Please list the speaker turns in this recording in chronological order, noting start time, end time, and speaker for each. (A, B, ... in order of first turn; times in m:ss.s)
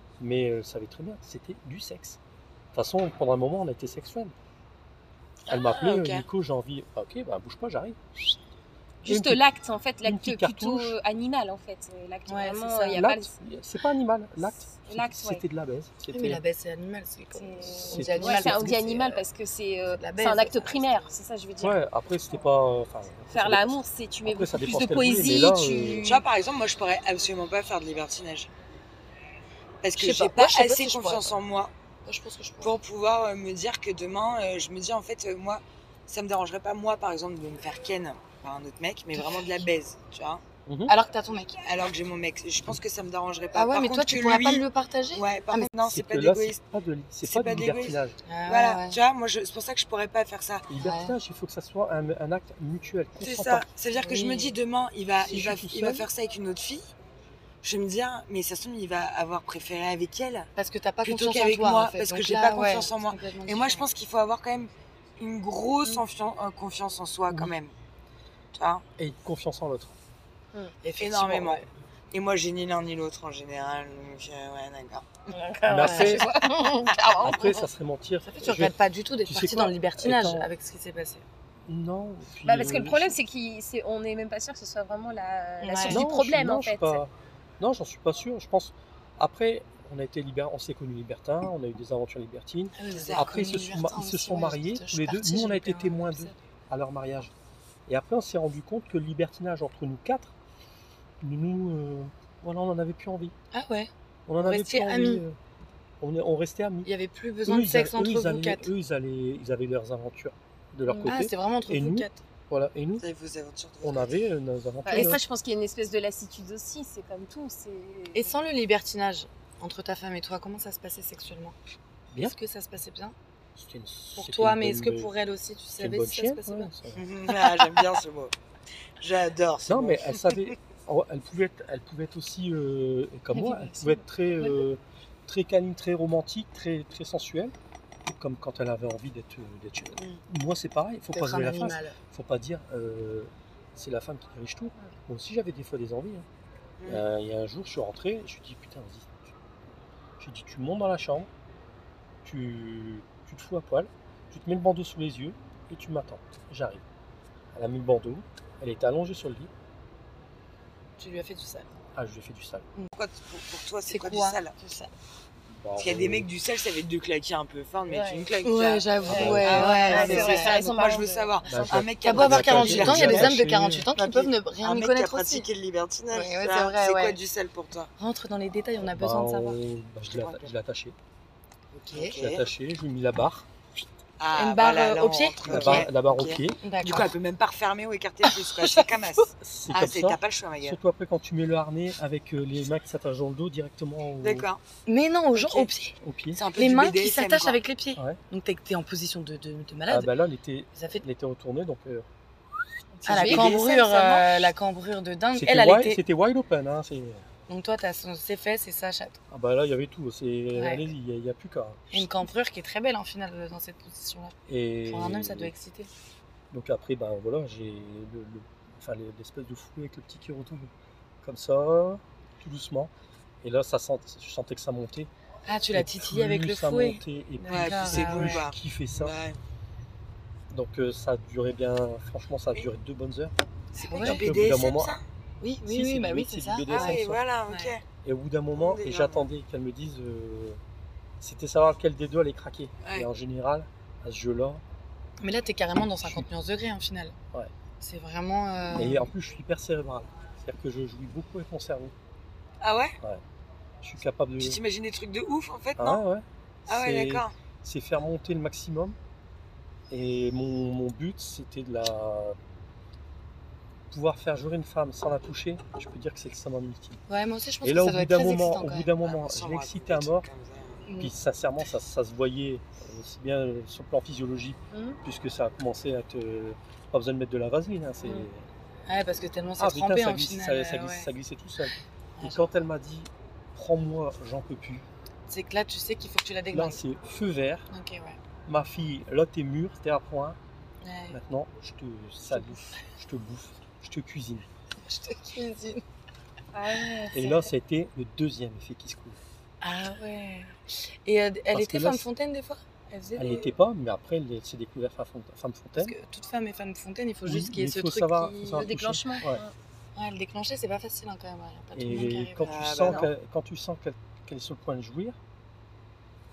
0:00.2-0:02.2 A
0:02.7-0:04.3 A
0:05.5-0:06.2 B
0:05.5-0:08.0 A
0:09.0-0:13.4 C
0:09.0-0:09.4 A
0:10.0-0:11.0 A
0:12.3-0:13.1 D
0:12.9-0:16.4 A
0:14.5-0:15.4 C
0:16.1-0:19.2 D
0:17.3-0:21.8 C
0:17.8-0:18.8 A
0:19.9-0:21.2 D
0:21.6-0:26.1 A
0:23.3-0:26.2 C
0:26.0-0:28.5 B
0:29.8-0:31.7 B
0:30.0-0:31.4 D
0:32.0-0:32.8 D
0:32.6-0:40.4 B
0:39.2-0:39.6 D
0:40.6-0:40.9 A
0:40.9-0:41.6 D
0:41.6-0:46.6 B
0:43.5-0:45.7 D
0:45.8-0:48.2 A
0:47.2-0:50.7 B
0:48.2-0:49.0 D
0:50.7-0:53.7 A
0:50.8-0:51.2 D
0:53.2-0:56.9 B
0:54.0-0:54.6 D
0:55.2-0:56.1 A
0:57.6-1:00.5 B
1:00.6-1:03.9 D
1:01.0-1:07.7 B
1:07.3-1:07.5 A
1:08.5-1:08.8 B
1:09.0-1:09.9 A
1:10.8-1:11.7 D
1:11.0-1:11.6 B
1:12.1-1:15.1 B
1:15.3-1:17.6 C
1:15.7-1:16.4 A
1:15.8-1:16.3 D
1:17.2-1:18.7 A
1:18.3-1:21.2 D
1:19.3-1:20.5 A
1:21.7-1:23.2 A
1:22.4-1:27.0 C
1:25.6-1:26.0 D
1:25.9-1:37.3 A
1:32.8-1:36.4 D
1:32.9-1:33.3 B
1:37.9-1:40.3 A
1:41.2-1:43.3 A
1:43.5-1:45.2 D
1:44.3-1:45.4 A
1:46.0-1:46.9 A
1:46.8-1:48.7 D
1:47.4-1:53.1 A
1:50.9-1:51.1 C
1:51.0-1:52.2 D
1:53.0-1:54.2 B
1:53.8-1:55.2 A
1:54.8-1:58.3 C
1:54.9-1:55.2 D
1:58.1-2:01.5 D
2:02.2-2:03.1 D
2:03.6-2:05.1 A
2:04.2-2:06.7 D
2:05.8-2:07.0 A
2:06.9-2:08.3 B
2:09.0-2:10.5 B
2:09.6-2:17.5 A
2:13.4-2:14.0 D
2:18.2-2:26.2 A
2:21.1-2:22.0 D
2:26.8-2:29.4 A
2:30.2-2:31.3 A
2:32.2-2:36.8 A
2:37.5-2:39.5 A
2:41.0-2:41.7 D
2:41.9-2:42.6 A
2:42.9-2:44.5 B
2:43.8-2:44.9 D
2:45.5-2:46.3 A
2:45.8-2:57.9 B
2:47.9-2:48.3 C
2:48.0-2:50.7 D
2:49.0-2:51.9 C
2:49.1-2:49.8 A
2:51.5-2:53.9 A
2:52.0-2:55.5 D
2:56.1-2:57.2 D
2:58.0-2:59.6 D
2:58.8-3:01.0 A
3:00.1-3:00.5 B
3:01.7-3:02.4 B
3:01.9-3:02.2 D
3:02.1-3:03.5 A
3:04.2-3:10.8 B
3:04.3-3:05.9 D
3:05.4-3:06.6 A
3:06.6-3:07.1 D
3:08.2-3:09.0 D
3:09.4-3:14.5 A
3:14.2-3:14.6 B
3:14.8-3:16.0 D
3:15.3-3:15.7 B
3:16.0-3:16.4 A
3:16.3-3:17.6 B
3:16.5-3:20.1 D
3:19.9-3:22.0 A
3:20.7-3:21.0 D
3:23.0-3:24.3 C
3:23.0-3:23.6 A
3:23.1-3:26.0 D
3:25.3-3:27.2 A
3:27.5-3:29.2 D
3:29.3-3:32.1 A
3:30.5-3:30.9 D
3:31.9-3:35.9 D
3:34.5-3:35.5 A
3:36.5-3:42.9 A
3:43.4-3:45.1 A
3:45.4-3:48.4 D
3:45.7-3:49.2 A
3:47.5-3:49.4 B
3:50.5-3:53.3 A
3:53.7-3:54.4 D
3:53.8-3:55.0 B
3:53.9-3:55.0 A
3:55.4-3:57.7 D
3:55.6-3:57.2 A
3:56.7-3:57.8 B
3:58.0-4:00.6 A
3:58.5-3:59.3 B
4:01.2-4:04.6 A
4:02.8-4:03.1 B
4:05.2-4:07.2 D
4:07.8-4:09.1 D
4:08.7-4:11.9 A
4:12.6-4:13.0 B
4:13.8-4:14.6 A
4:14.4-4:16.0 B
4:15.8-4:19.0 A
4:16.7-4:17.3 B
4:19.9-4:22.4 A
4:23.9-4:27.0 A
4:27.1-4:28.9 D
4:27.6-4:30.3 A
4:29.0-4:30.9 B
4:30.8-4:31.1 D
4:31.0-4:38.5 A
4:34.7-4:35.0 C
4:38.9-4:41.1 D
4:39.6-4:44.8 A
4:42.2-4:42.6 D
4:45.3-4:46.8 D
4:46.5-4:47.7 A
4:47.7-4:48.2 D
4:48.5-4:50.4 A
4:50.8-4:51.2 D
4:51.1-4:54.5 A
4:52.3-4:52.8 D
4:54.8-4:55.8 D
4:56.5-4:57.3 C
4:56.9-4:57.4 D
4:57.1-4:59.2 A
4:59.6-5:03.6 D
5:01.5-5:02.0 A
5:03.2-5:06.0 A
5:05.7-5:08.7 D
5:07.2-5:09.4 A
5:08.5-5:09.5 C
5:10.0-5:13.1 D
5:11.7-5:15.2 A
5:12.4-5:13.1 B